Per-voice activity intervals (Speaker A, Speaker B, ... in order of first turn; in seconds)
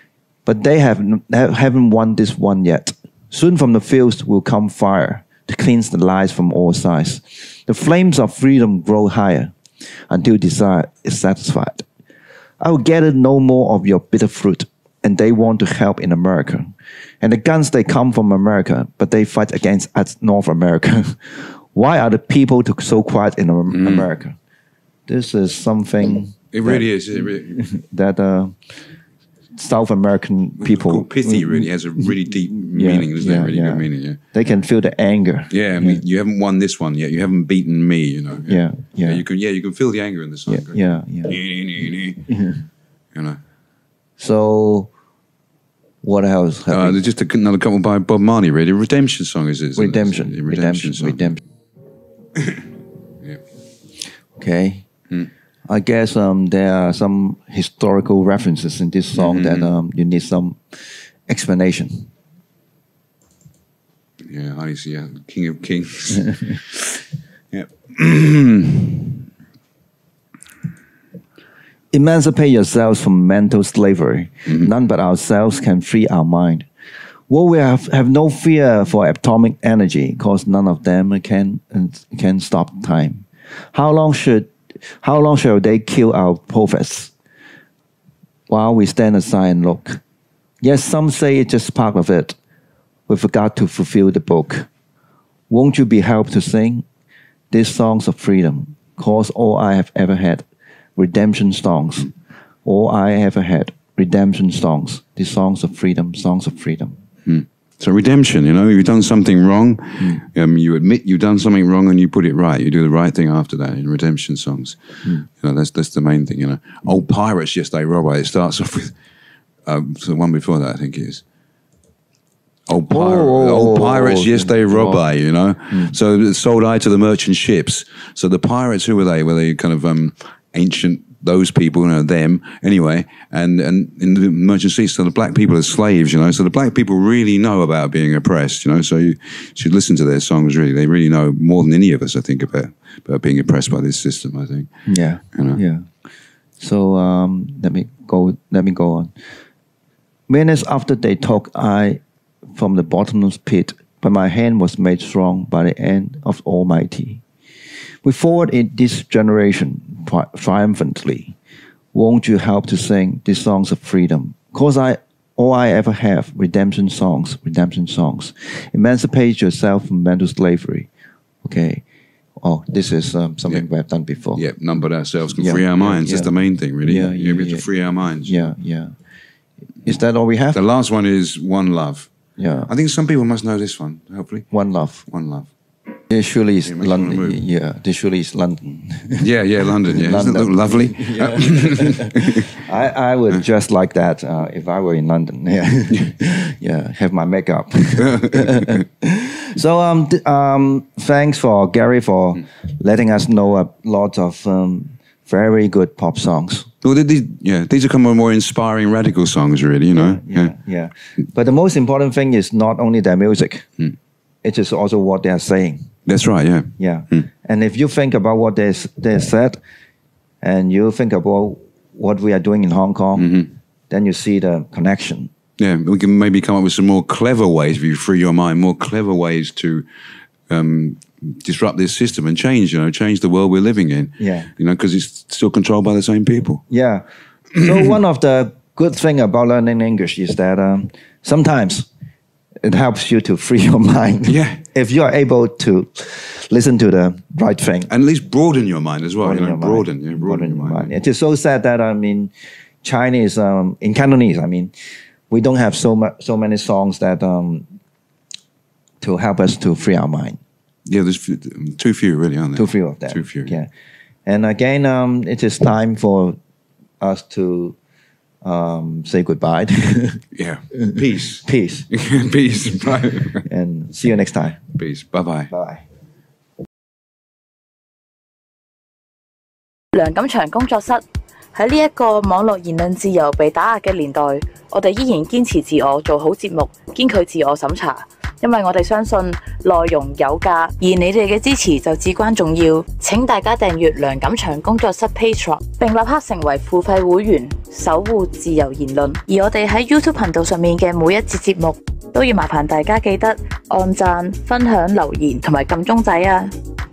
Speaker A: 0.5-9.5, 10.1-11.8, 12.6-16.7, 17.2-24.4, 25.1-28.6, 29.6-36.0, 38.5-39.2, 40.5-41.4, 42.3-42.6, 44.2-44.9, 46.0-47.0, 49.8-51.4, 54.4-54.9, 55.7-62.1, 71.9-76.7, 77.3-87.1, 88.5-90.0, 90.6-92.4, 93.1-94.7, 95.5-96.8, 97.5-102.1, 102.6-107.0, 122.9-125.0, 125.7-126.0, 144.9-145.9, 146.6-149.1, 150.3-152.0, 152.6-157.2, 158.0-161.3, 161.9-170.9, 171.4-171.8, 172.4-174.4, 175.3-176.3, 176.8-177.6, 178.2-178.9, 179.8-180.6, 182.4-182.7, 184.5-185.1, 186.1-189.3, 189.9-206.7, 209.9-213.7, 214.4-215.9, 216.8-219.6, 220.4-225.3, 234.2-234.5, 236.7-241.9, 242.6-247.9, 249.2-252.3, 252.8-254.7, 255.3-257.7, 259.0-260.4, 262.6-263.7, 264.2-266.4, 267.0-267.8, 268.4-270.2, 271.4-271.9, 273.4-274.6, 275.5-275.8
Speaker B: 23.7-24.1, 26.5-27.6, 30.6-34.2, 35.5-42.3, 43.1-43.4, 46.7-51.4, 52.3-52.7, 59.1-59.7, 64.2-69.2, 107.2-119.0, 119.6-121.2, 122.7-144.7, 145.3-145.6, 174.3-178.5, 180.5-182.1, 182.7-184.5, 185.1-185.5, 186.6-187.4, 189.2-192.5, 198.0-198.8, 206.8-210.5, 216.1-217.2, 223.2-223.5, 225.6-229.8, 230.5-236.6, 244.2-244.6, 247.9-250.9, 260.9-263.5, 270.3-273.4, 274.8-275.5
Speaker C: 279.9-281.0, 281.5-306.5